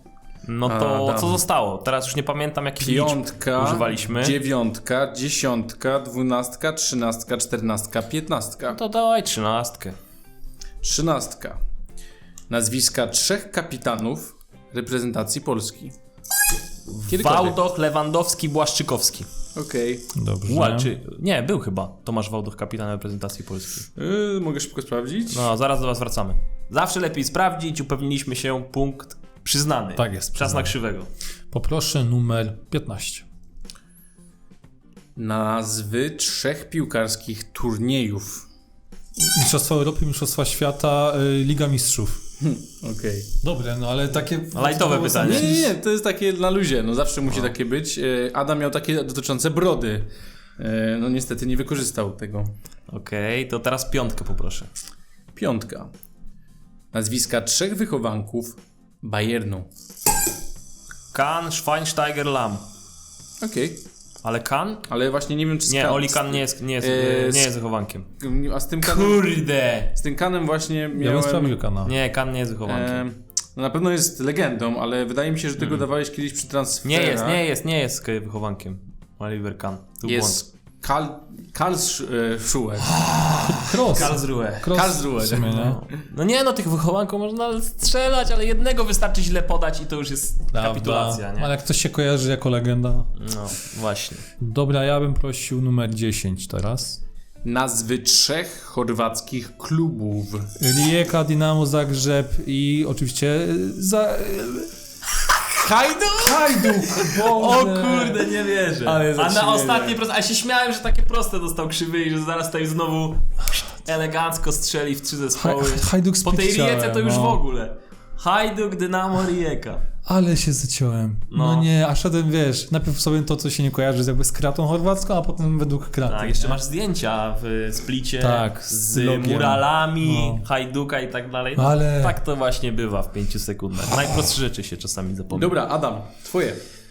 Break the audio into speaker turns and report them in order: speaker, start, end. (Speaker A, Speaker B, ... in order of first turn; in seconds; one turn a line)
Speaker A: 0.4-4.4
Speaker B: 0.7-1.4
Speaker B: 2.8-8.8
Speaker A: 8.7-9.9
Speaker B: 10.8-11.6
Speaker B: 12.5-15.9
Speaker A: 16.9-19.3
Speaker B: 17.1-17.6
Speaker B: 19.6-20.1
Speaker C: 20.2-20.9
Speaker A: 20.4-23.9
Speaker B: 24.0-25.5
Speaker A: 25.3-31.1
Speaker C: 30.0-30.7
Speaker C: 31.5-33.2
Speaker B: 35.2-38.5
Speaker C: 39.2-42.2
Speaker B: 42.4-43.3
Speaker C: 43.4-45.7
Speaker A: 44.5-45.6
Speaker B: 45.2-52.5
Speaker A: 52.9-54.7
Speaker B: 55.4-55.9
Speaker B: 56.9-59.7
Speaker A: 61.1-62.6
Speaker B: 63.4-63.8
Speaker A: 64.2-64.8
Speaker B: 64.9-67.5
Speaker A: 65.7-68.1
Speaker B: 68.2-69.3
Speaker A: 68.8-69.9
Speaker B: 69.9-71.6
Speaker C: 71.0-71.9
Speaker A: 71.8-73.0
Speaker B: 72.7-77.4
Speaker A: 75.6-75.8
Speaker A: 76.8-80.4
Speaker B: 80.0-83.0
Speaker A: 82.9-84.7
Speaker C: 83.5-85.8
Speaker B: 83.8-84.1
Speaker B: 84.7-86.0
Speaker A: 85.5-91.5
Speaker C: 90.5-93.1
Speaker A: 93.2-94.2
Speaker C: 94.4-97.0
Speaker B: 97.4-100.5
Speaker C: 100.6-104.7
Speaker B: 105.6-108.2
Speaker C: 106.2-108.2
Speaker A: 107.0-119.8
Speaker B: 108.8-110.0
Speaker C: 115.4-117.4
Speaker C: 120.0-126.6
Speaker A: 121.3-121.7
Speaker A: 126.1-135.6
Speaker C: 128.2-130.4
Speaker C: 131.6-132.2
Speaker B: 135.3-136.6